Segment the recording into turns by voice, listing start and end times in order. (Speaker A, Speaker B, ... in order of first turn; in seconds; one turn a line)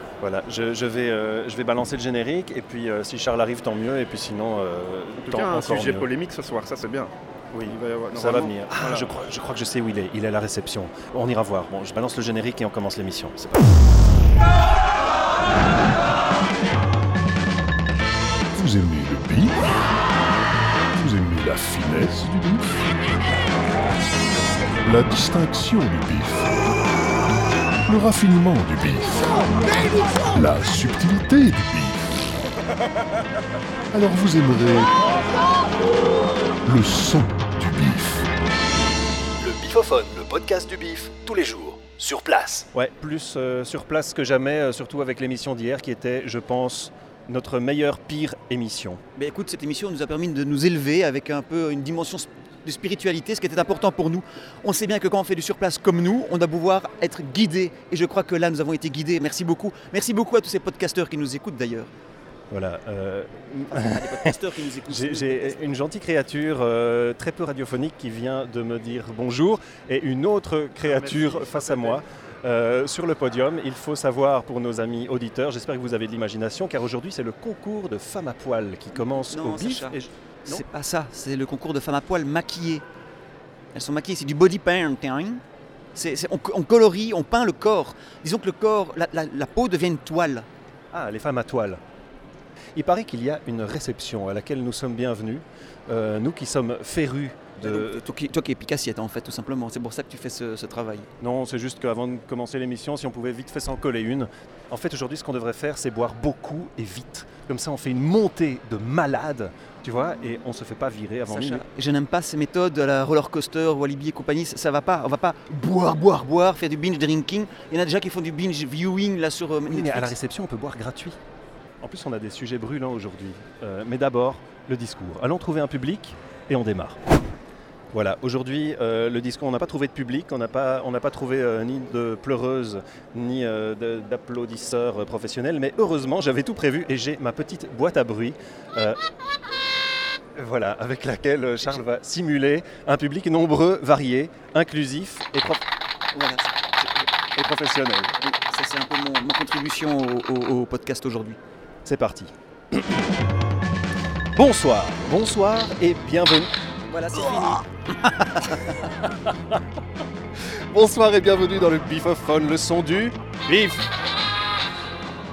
Speaker A: 0.2-6.1
Speaker B: 5.2-7.1
Speaker A: 7.5-13.7
Speaker B: 7.7-9.1
Speaker C: 18.6-19.8
Speaker C: 21.0-22.9
Speaker C: 24.8-26.7
Speaker C: 27.9-32.3
Speaker C: 33.9-35.5
Speaker C: 36.6-38.3
Speaker D: 39.4-42.7
Speaker A: 42.7-49.0
Speaker E: 49.2-61.9
Speaker A: 62.5-64.3
Speaker E: 63.7-65.6
Speaker A: 64.9-80.6
Speaker B: 70.9-72.0
Speaker E: 79.1-82.8
Speaker E: 83.7-85.4
Speaker E: 86.0-90.5
Speaker A: 90.9-91.8
Speaker A: 92.8-98.0
Speaker E: 97.6-101.1
Speaker A: 101.2-111.6
Speaker E: 111.3-120.1
Speaker A: 119.7-121.2
Speaker A: 121.8-127.0
Speaker A: 127.9-139.0
Speaker A: 140.4-145.6
Speaker E: 146.1-147.0
Speaker A: 147.3-148.1
Speaker E: 148.2-151.4
Speaker A: 151.9-152.8
Speaker A: 154.3-156.5
Speaker E: 156.9-158.8
Speaker A: 160.7-163.9